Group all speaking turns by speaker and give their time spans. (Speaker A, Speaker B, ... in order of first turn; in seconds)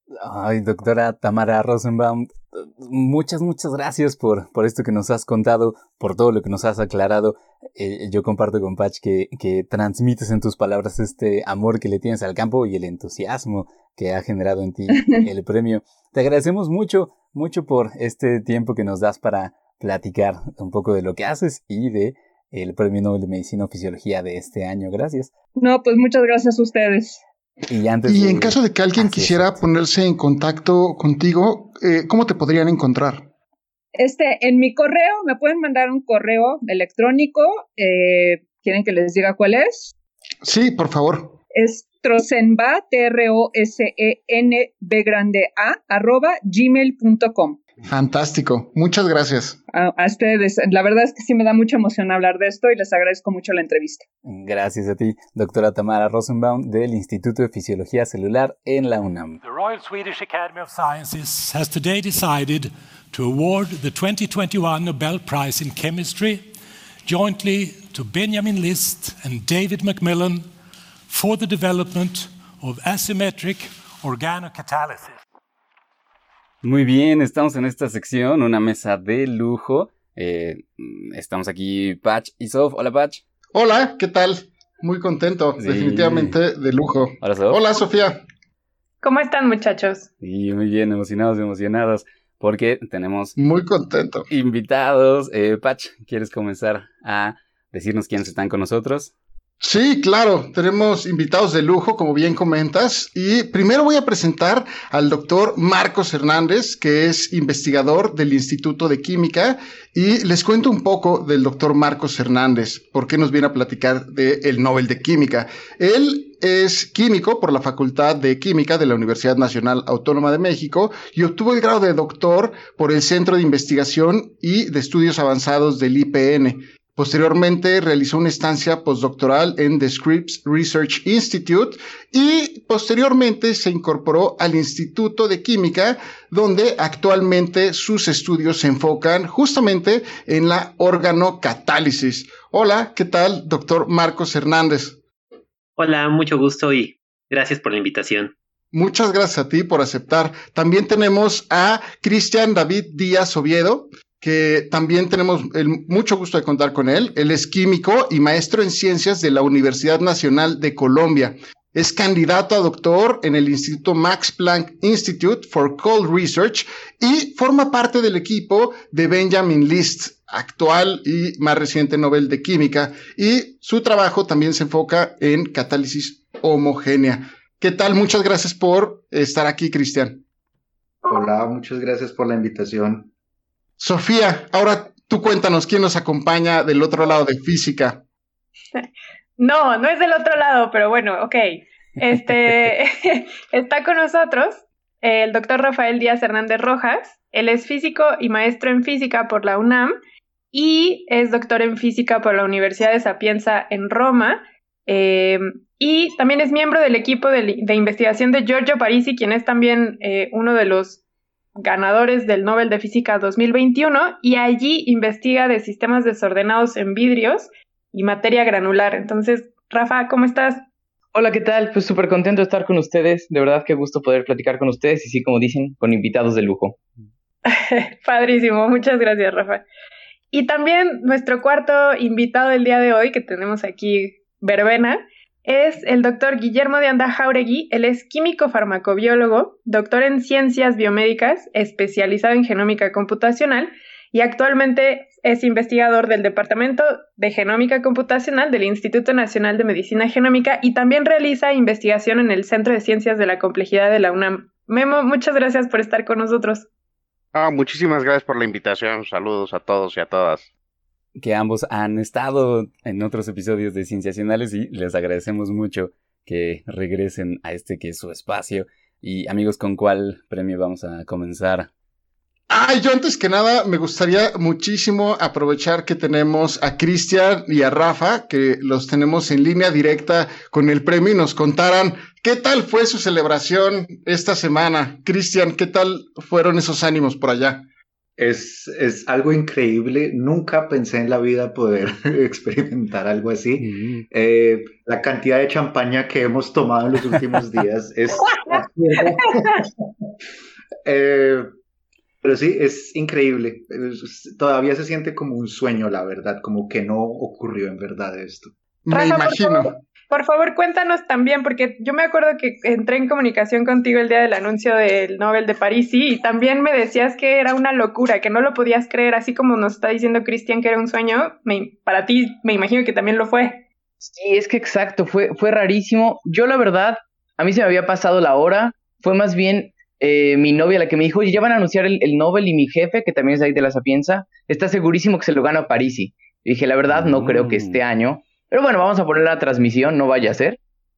Speaker A: 0.2-25.3, 27.7-29.6, 54.2-59.4, 76.6-83.2, 85.6-86.4, 87.2-87.6, 90.2-93.4, 94.3-99.1, 261.2-271.7, 293.6-294.1, 336.9-337.8
Speaker B: 25.6-27.2, 34.0-39.9, 41.5-47.6, 49.7-54.0
Speaker C: 28.1-33.2, 40.4-41.4, 47.9-49.6, 83.5-88.2, 93.4-94.3, 99.6-145.0, 148.7-180.2, 183.8-188.0, 272.5-287.6, 308.9-309.7
Speaker D: 59.4-66.5, 67.0-70.5, 71.1-75.2
Speaker E: 89.0-90.1, 188.7-199.9, 200.5-211.0, 211.6-220.7, 227.4-229.6, 230.3-256.7, 308.9-323.6
Speaker F: 145.8-148.3
Speaker G: 181.0-183.1, 288.2-299.8, 300.8-301.5, 302.2-308.5
Speaker H: 221.1-226.8, 324.0-340.6
Speaker I: 257.3-260.5